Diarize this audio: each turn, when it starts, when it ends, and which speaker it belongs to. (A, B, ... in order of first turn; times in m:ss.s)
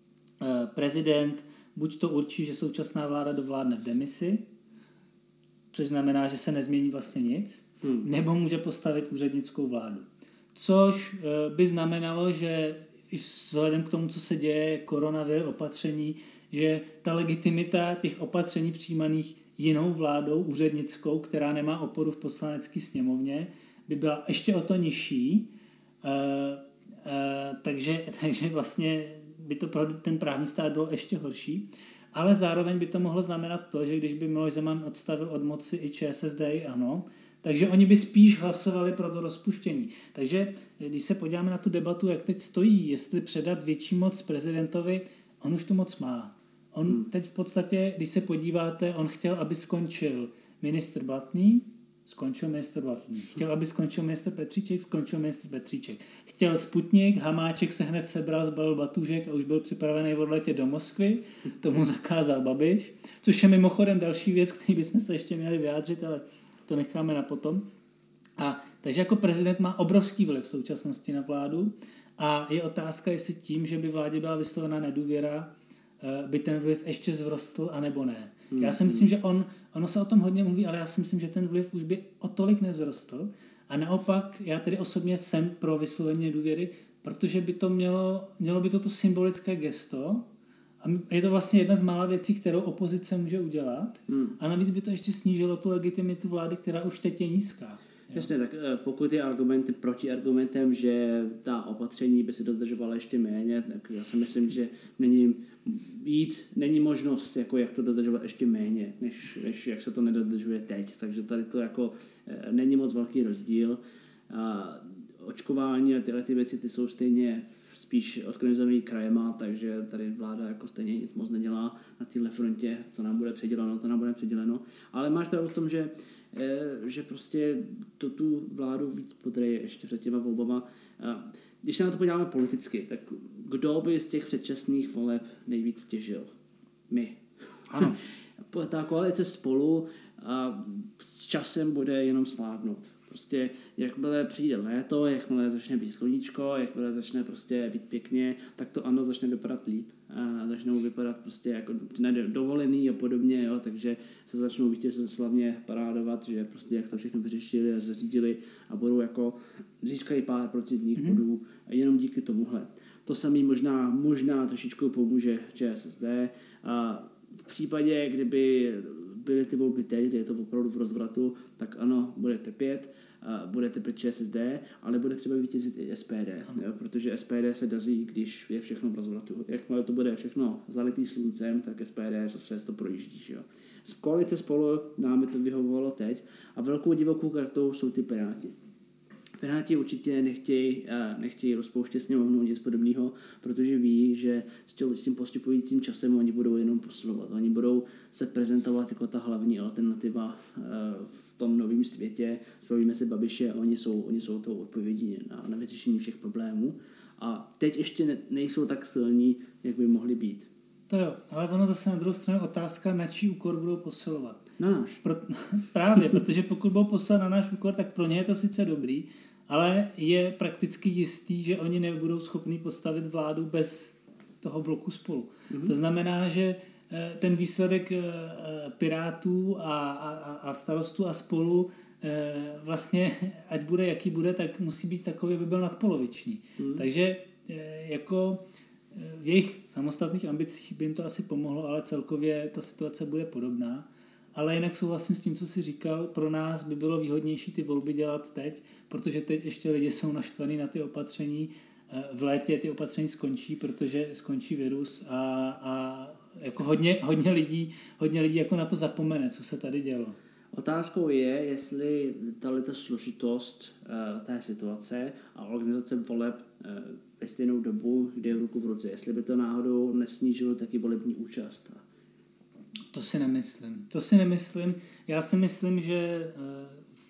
0:00.4-0:04.4 A
0:05.7-0:25.5 A
0:26.0-1:07.6 A
1:08.4-1:15.5 A
1:16.0-1:30.2 A
1:18.5-1:19.1 B
1:30.8-1:38.3 A
1:34.1-1:34.4 B
1:38.1-2:16.3 B
2:16.9-2:17.2 B
2:17.7-2:18.0 A
2:18.5-3:08.5 B
3:09.4-3:30.5 B
3:30.9-3:34.4 A
3:34.6-3:35.0 B
3:35.0-3:58.4 A
3:45.5-3:45.7 B
3:56.6-3:56.8 B
3:58.9-4:20.2 A
4:20.5-4:31.8 B
4:32.9-4:36.9 A